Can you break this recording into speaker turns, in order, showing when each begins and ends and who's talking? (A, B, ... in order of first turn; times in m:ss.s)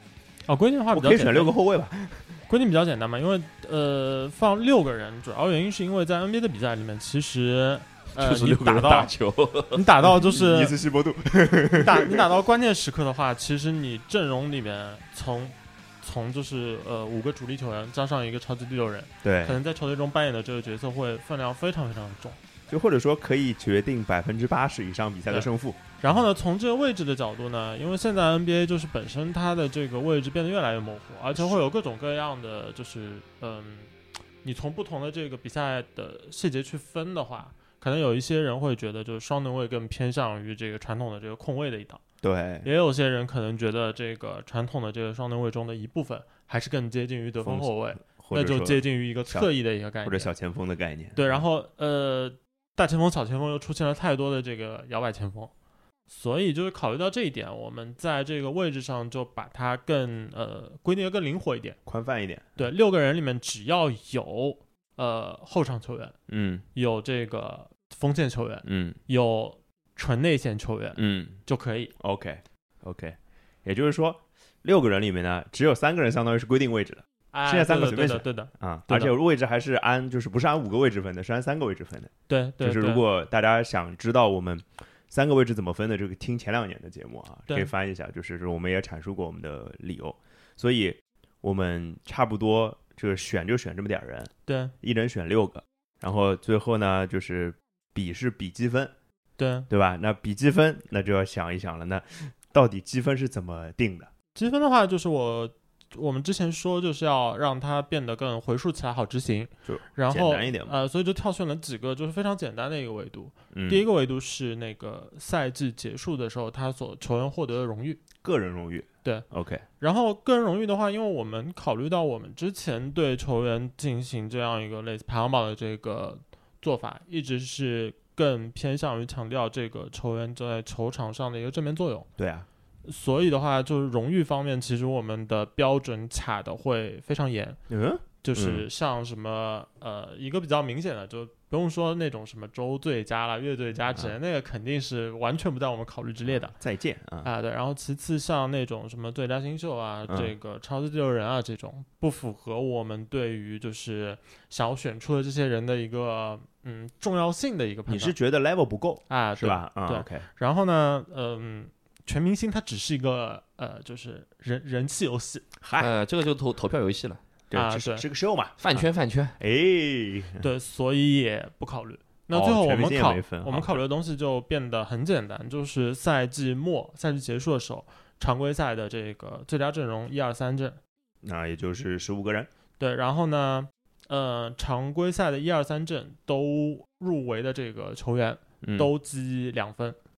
0:00.5-0:01.6 A
0:00.9-0:02.4 B
0:02.5-0:09.1 A
0:08.2-0:09.8 C
0:09.7-0:10.8 A
0:10.1-0:12.2 B
0:11.7-0:22.4 A
0:19.2-0:19.6 B
0:22.7-0:25.8 B
0:26.0-0:33.9 A
0:34.4-0:42.0 A
0:42.2-0:42.7 B
0:42.6-0:50.3 A
0:47.4-0:49.5 B
0:50.0-0:51.4 B
0:51.2-0:55.5 A
0:56.1-1:01.8 A
1:01.9-1:02.6 B
1:02.6-1:06.2 A
1:06.3-1:06.6 B
1:06.8-1:11.9 A
1:08.6-1:09.0 B
1:11.0-1:11.4 B
1:12.0-1:38.9 B
1:17.3-1:19.2 A
1:22.3-1:23.0 A
1:34.5-1:34.7 A
1:39.4-1:39.7 A
1:39.7-1:44.1 B
1:44.4-1:58.0 A
1:49.7-1:50.8 B
1:53.5-1:53.8 B
1:58.2-1:59.6 B
1:59.8-2:12.1 A
2:12.2-2:12.5 B
2:12.9-2:17.6 A
2:17.7-2:18.6 B
2:18.2-2:26.6 A
2:26.2-2:27.3 B
2:27.2-2:38.2 A
2:30.1-2:30.3 B
2:37.9-2:40.2 B
2:39.1-2:45.4 A
2:45.6-2:45.9 B
2:45.8-2:47.2 C
2:47.5-2:48.9 B
2:47.5-2:48.0 A
2:48.6-2:49.4 C
2:49.4-2:50.4 B
2:50.4-3:00.8 A
2:52.3-2:53.8 B
3:01.2-3:02.5 B
3:02.8-3:10.0 A
3:08.6-3:08.9 B